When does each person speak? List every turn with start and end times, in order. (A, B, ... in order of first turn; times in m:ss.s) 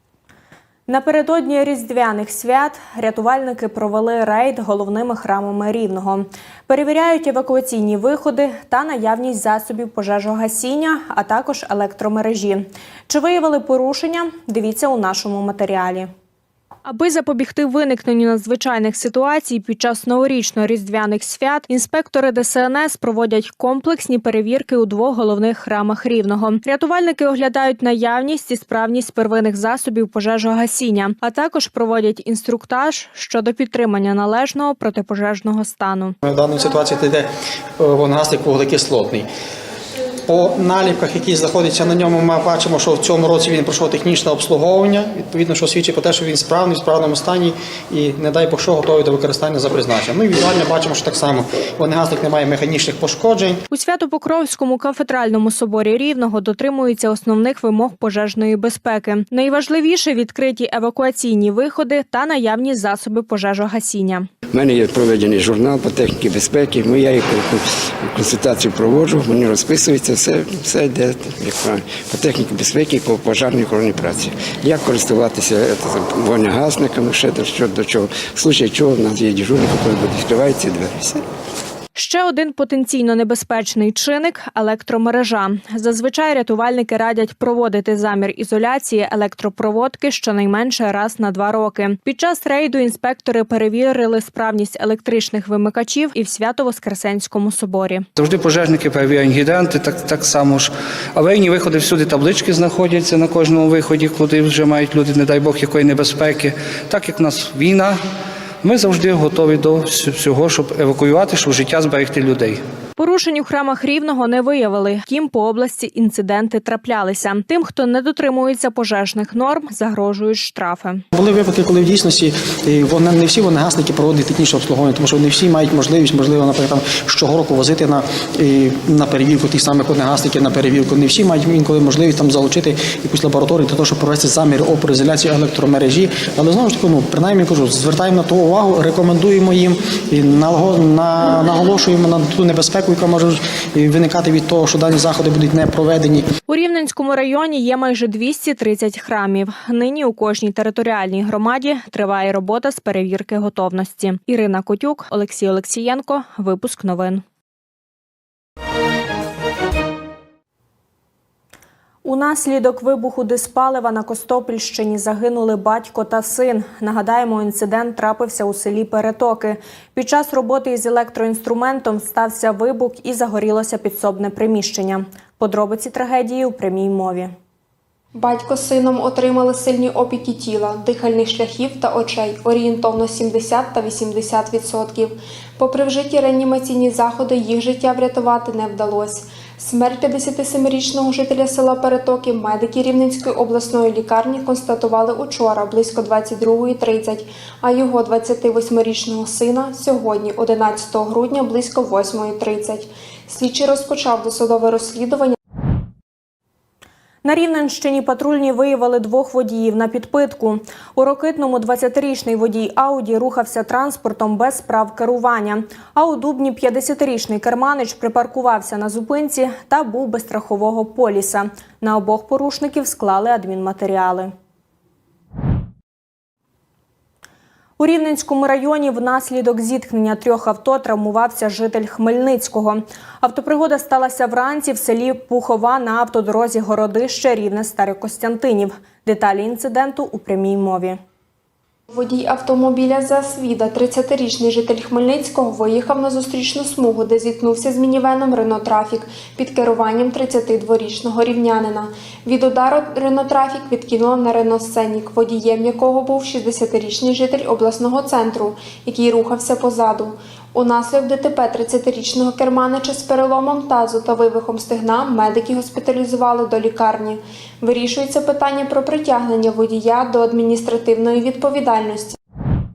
0:00.9-0:16.1 A
0:16.9-0:36.2 A
0:36.2-0:37.3 B
0:37.8-0:39.3 B
0:40.3-0:53.6 B
0:53.7-1:04.3 A
1:04.5-1:21.2 C
1:22.0-1:38.1 A
1:38.2-1:48.0 D
1:48.6-1:52.6 D
1:53.0-2:01.0 A
2:01.1-2:26.2 B
2:26.5-2:37.2 A
2:42.0-2:57.3 A
2:58.1-3:25.4 E
3:27.2-3:44.3 A
3:47.8-4:01.0 A
4:01.9-4:32.2 E